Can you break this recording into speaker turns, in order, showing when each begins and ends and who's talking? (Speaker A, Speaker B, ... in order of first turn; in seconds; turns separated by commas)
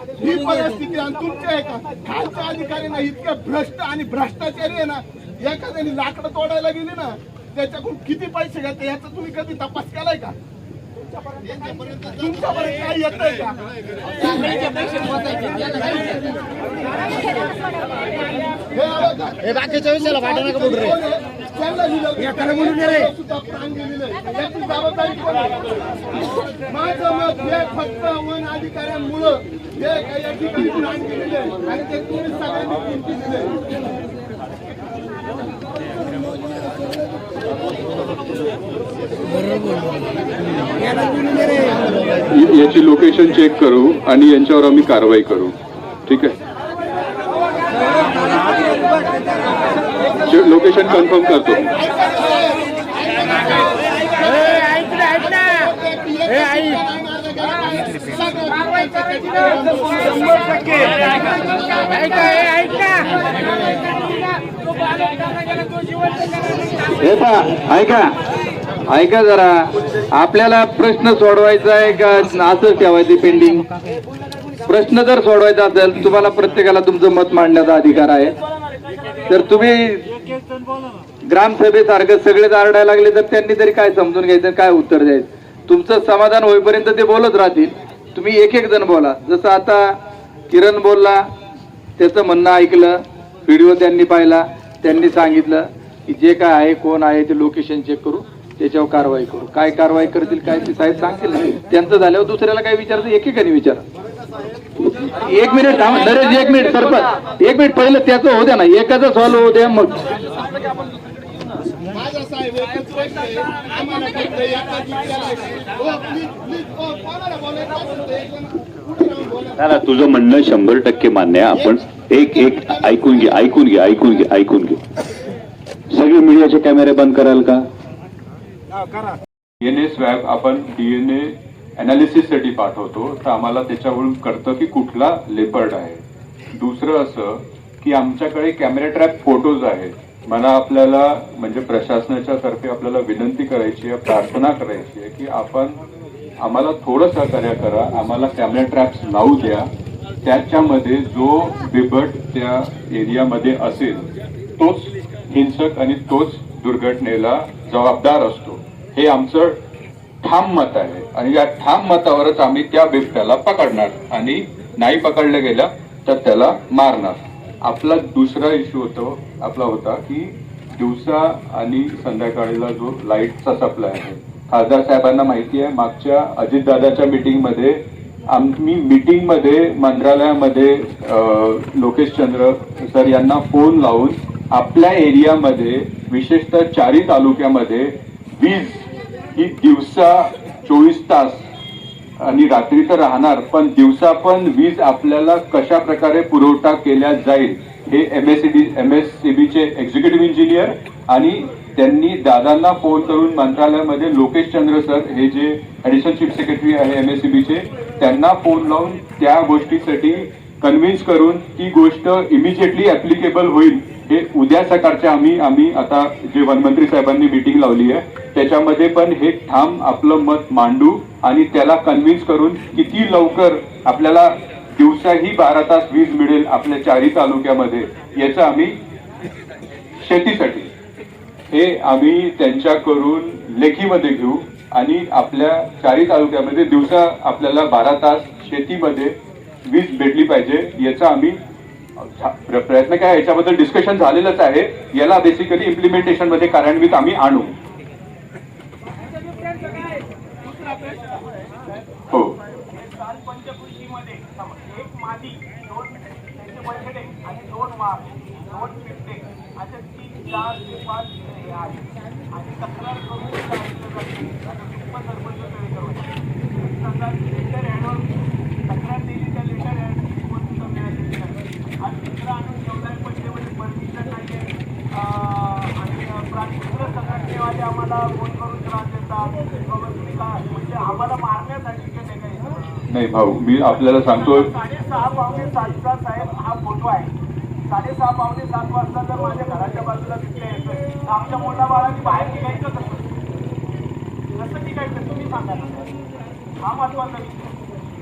Speaker A: 0.1-10.3, Speaker A: 12.1-13.6, Speaker A: 14.2-14.8, Speaker A: 15.7-16.1, Speaker A: 18.6-33.7, Speaker B: 42.3-45.5, Speaker B: 46.0-46.4, Speaker B: 50.2-51.7, Speaker A: 51.7-62.5, Speaker C: 62.2-63.1, Speaker C: 66.8-68.1, Speaker C: 68.9-73.7, Speaker C: 74.7-78.3, Speaker C: 79.3-80.1, Speaker C: 81.2-90.0, Speaker C: 90.5-91.2, Speaker C: 92.0-103.8, Speaker D: 105.1-107.3, Speaker C: 105.2-110.1, Speaker A: 111.9-119.7, Speaker E: 119.6-124.8, Speaker E: 125.9-127.6, Speaker B: 129.6-136.0, Speaker B: 136.5-145.8, Speaker B: 146.4-149.7, Speaker B: 150.2-159.6, Speaker B: 160.2-191.4, Speaker B: 192.2-228.8, Speaker B: 230.0-230.7, Speaker B: 231.5-241.4, Speaker B: 242.0-247.5, Speaker D: 249.3-251.6, Speaker B: 252.1-252.4, Speaker D: 252.7-282.8, Speaker B: 282.9-284.5, Speaker D: 283.9-287.1, Speaker D: 287.7-293.1, Speaker D: 294.4-295.9, Speaker D: 296.6-297.5